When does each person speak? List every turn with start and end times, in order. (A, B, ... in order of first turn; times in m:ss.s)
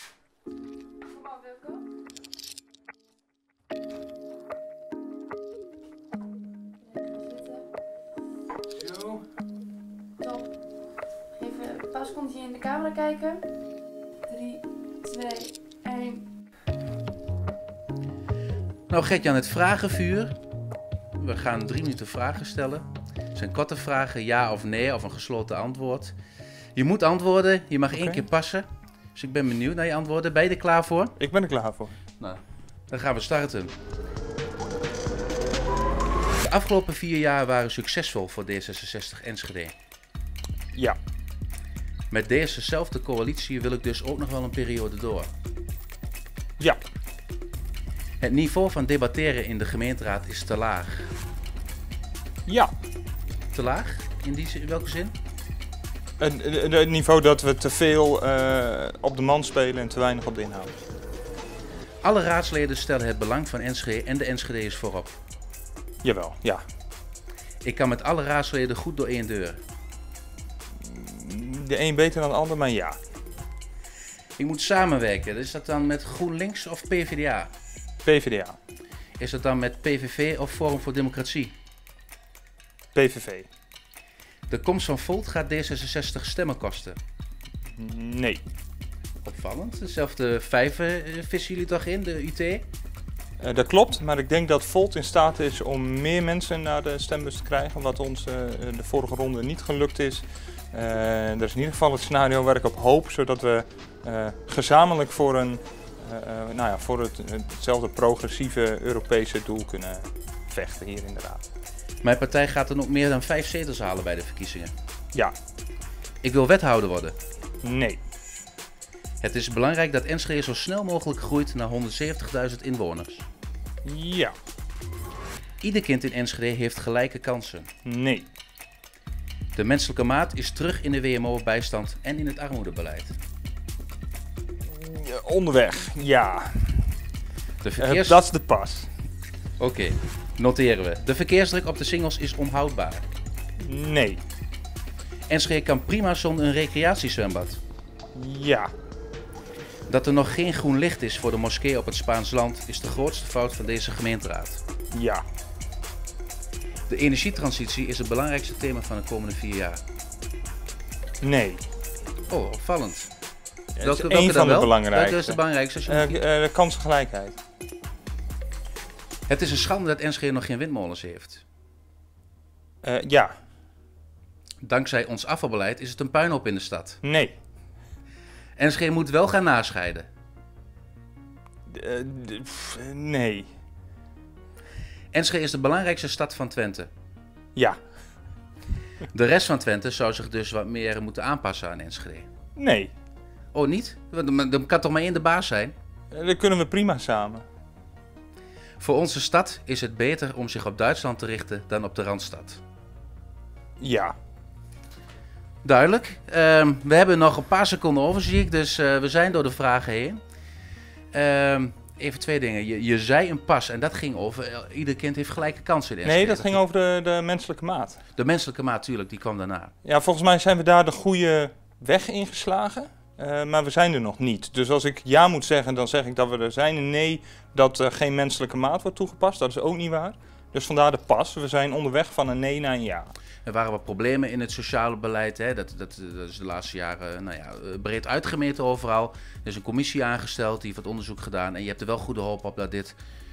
0:01.1-0:01.8 A
0:06.8-0:07.7 A
0:08.7-0:09.2 B
0:10.2-0:10.5 A
0:11.4-0:13.5 A
0:14.3-0:16.3 A
0:18.9-0:20.4 C
0:21.2-0:26.1 C
0:26.8-0:31.2 C
0:27.9-0:28.3 B
0:31.2-0:32.0 B
0:32.2-0:33.7 C
0:36.4-0:39.7 C
0:42.1-0:45.3 C
0:48.2-0:51.1 C
0:52.4-0:52.7 B
0:53.5-0:55.1 C
0:56.2-1:00.8 B
1:02.0-1:05.1 C
1:06.0-1:06.6 B
1:07.6-1:09.6 C
1:10.8-1:13.0 B
1:14.4-1:17.5 C
1:18.0-1:18.6 B
1:19.2-1:21.5 C
1:22.9-1:23.5 B
1:24.5-1:27.0 C
1:27.7-1:28.4 B
1:29.2-1:32.6 C
1:33.4-1:51.4 B
1:52.0-1:54.7 C
1:56.2-1:57.2 C
1:57.6-1:58.0 B
1:59.2-2:03.2 C
2:03.8-2:04.3 B
2:05.6-2:07.7 C
2:07.8-2:08.3 B
2:09.6-2:13.2 C
2:14.6-2:17.0 B
2:17.6-2:18.2 C
2:17.8-2:18.9 B
2:19.6-2:23.1 C
2:23.6-2:24.2 B
2:25.3-2:27.6 C
2:28.2-2:28.7 B
2:29.9-2:34.6 C
2:34.9-2:35.2 B
2:36.9-2:39.8 C
2:41.2-2:41.6 B
2:42.3-2:43.1 C
2:43.8-2:47.4 B
2:43.8-2:46.2 C
2:49.3-2:51.4 C
2:52.8-2:53.3 B
2:54.6-2:57.0 C
2:57.0-2:57.4 B
2:58.6-3:00.1 C
3:01.7-3:03.5 B
3:05.1-3:06.9 C
3:09.1-3:12.3 C
3:12.6-3:12.9 B
3:13.5-3:15.7 C
3:16.1-3:17.5 B
3:18.8-3:22.6 C
3:23.8-3:24.2 B
3:25.6-3:30.2 C
3:31.1-3:36.6 C
3:36.0-3:38.0 B
3:38.2-3:39.7 C
3:39.8-3:53.1 B
3:53.4-4:03.0 C